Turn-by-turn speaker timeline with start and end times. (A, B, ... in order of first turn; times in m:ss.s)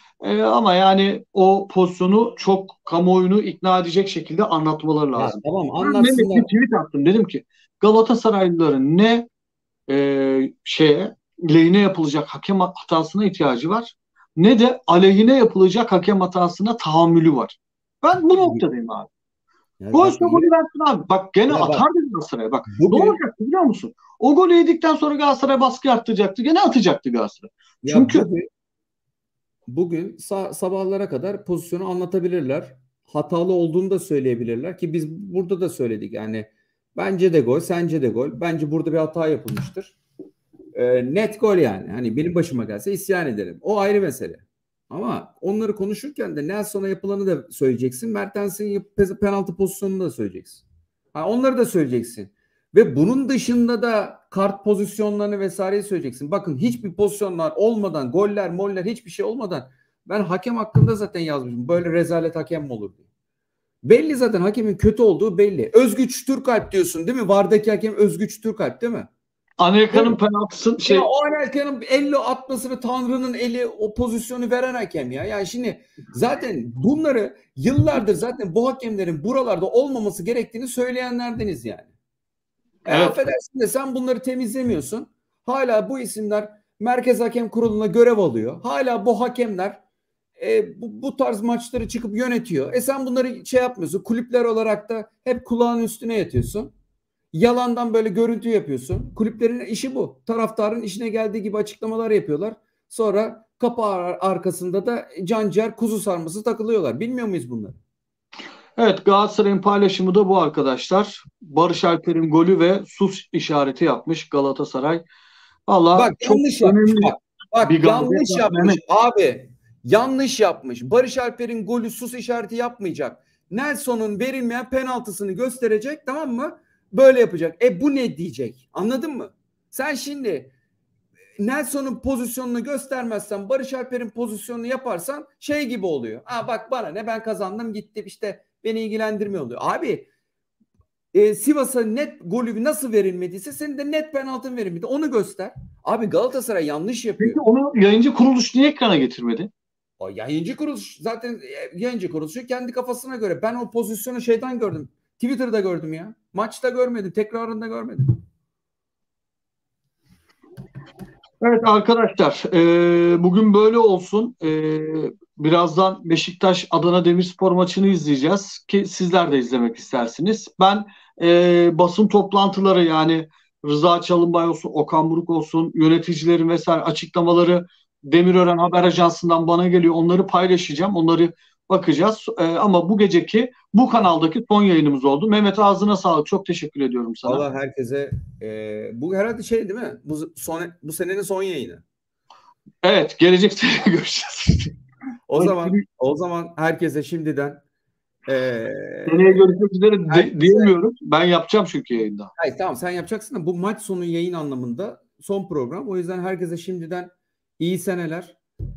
0:00.2-0:09.3 A
0:05.2-0:06.5 B
0:09.9-0:19.1 A
0:18.3-0:18.6 B
0:19.8-0:20.5 B
0:19.9-0:28.3 A
0:21.5-0:21.8 B
0:22.7-0:23.2 B
0:27.8-0:28.4 B
0:29.7-0:40.0 B
0:40.8-1:03.0 B
1:03.8-1:09.1 B
1:09.6-1:11.1 A
1:09.9-1:10.2 B
1:10.8-1:21.9 B
1:22.9-1:29.8 B
1:22.9-1:23.2 A
1:30.4-1:36.7 B
1:37.3-1:47.8 B
1:48.8-1:55.0 A
1:55.7-1:58.8 A
1:56.0-2:10.5 B
2:11.4-2:20.1 B
2:21.1-2:27.4 B
2:27.2-2:29.5 A
2:30.0-2:38.2 B
2:41.4-3:07.4 A
3:07.2-3:11.8 B
3:12.8-3:14.7 A
3:15.3-3:17.6 B
3:15.4-3:15.8 A
3:18.3-3:19.4 B
3:19.1-3:22.3 A
3:20.1-3:20.7 B
3:22.4-3:28.4 B